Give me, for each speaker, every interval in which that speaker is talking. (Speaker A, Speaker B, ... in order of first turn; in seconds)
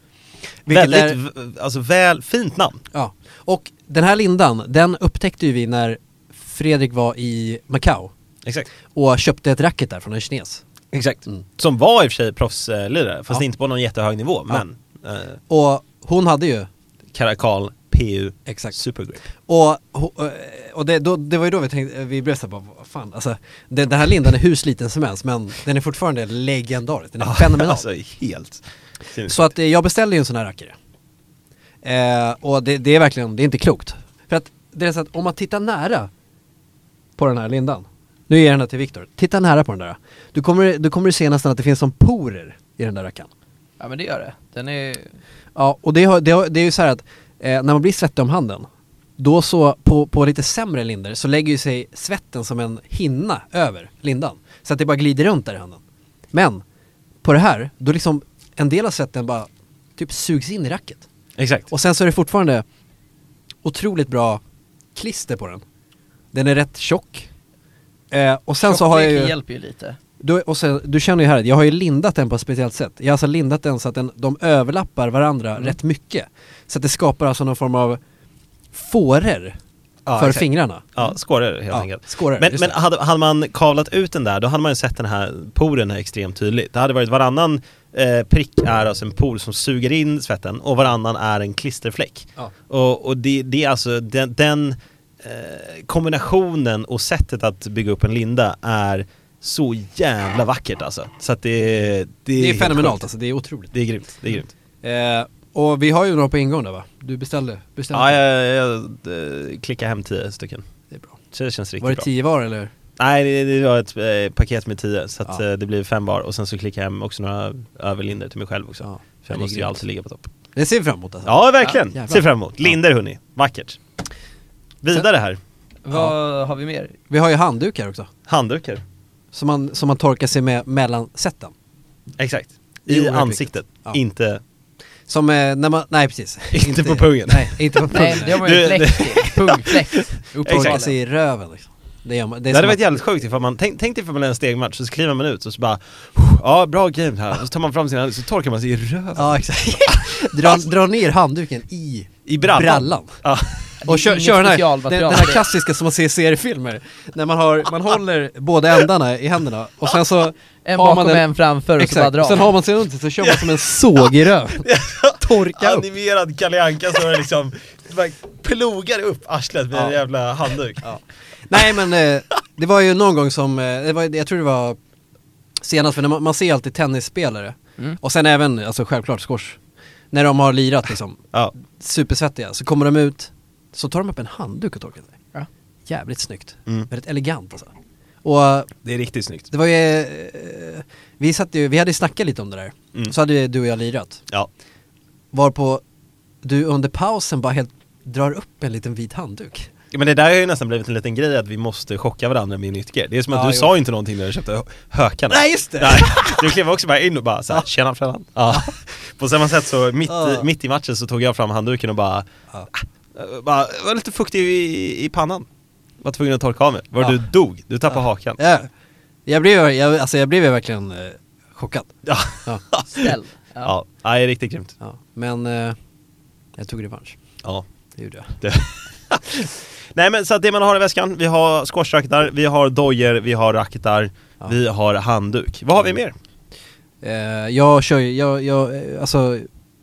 Speaker A: 0.6-1.2, 2.9-8.1, 8.9-10.6, 15.5-16.7, 18.5-18.8, 19.4-27.8, 29.2-30.7, 31.8-36.1, 37.2-43.3, 45.5-55.8, 56.3-56.6, 57.2-61.0, 61.7-62.6, 63.6-64.4, 65.0-65.6, 66.3-67.3, 68.1-69.3, 70.2-78.0, 78.7-79.5, 80.2-80.9, 81.7-82.8, 102.4-103.7, 104.8-108.2, 110.9-111.2, 111.8-112.7, 118.8-119.8, 120.5-122.2, 127.1-128.1, 129.3-131.5, 132.9-134.0, 135.1-138.6, 140.4-143.0, 149.2-153.2, 153.8-161.2, 161.8-165.9, 170.8-174.8, 175.6-179.6, 180.1-185.1, 185.9-187.7, 188.2-188.7, 189.5-194.2, 195.3-195.8, 196.4-199.7, 203.3-203.7, 205.3-206.5, 210.1-210.4, 218.4-218.7, 219.2-221.9, 224.8-225.8, 226.6-227.2, 228.0-228.4, 237.0-239.5
Speaker B: 0.7-2.8, 8.4-8.7, 10.9-15.4, 17.1-19.2, 27.2-29.5, 61.4-61.7, 80.0-103.0, 103.7-104.5, 107.9-110.6, 111.3-112.1, 113.0-120.3, 121.2-123.8, 124.8-125.4, 128.3-128.8, 132.2-134.4, 136.5-140.8, 142.5-149.4, 149.9-150.6, 152.2-153.8, 163.2-164.1, 164.6-170.8, 171.5-171.9, 188.8-189.5, 199.9-215.5, 216.0-218.4, 222.1-224.7, 228.4-236.1
Speaker C: 43.8-45.2, 68.6-70.0, 125.8-126.9, 137.9-140.9, 153.8-155.5, 160.6-162.5, 222.9-223.7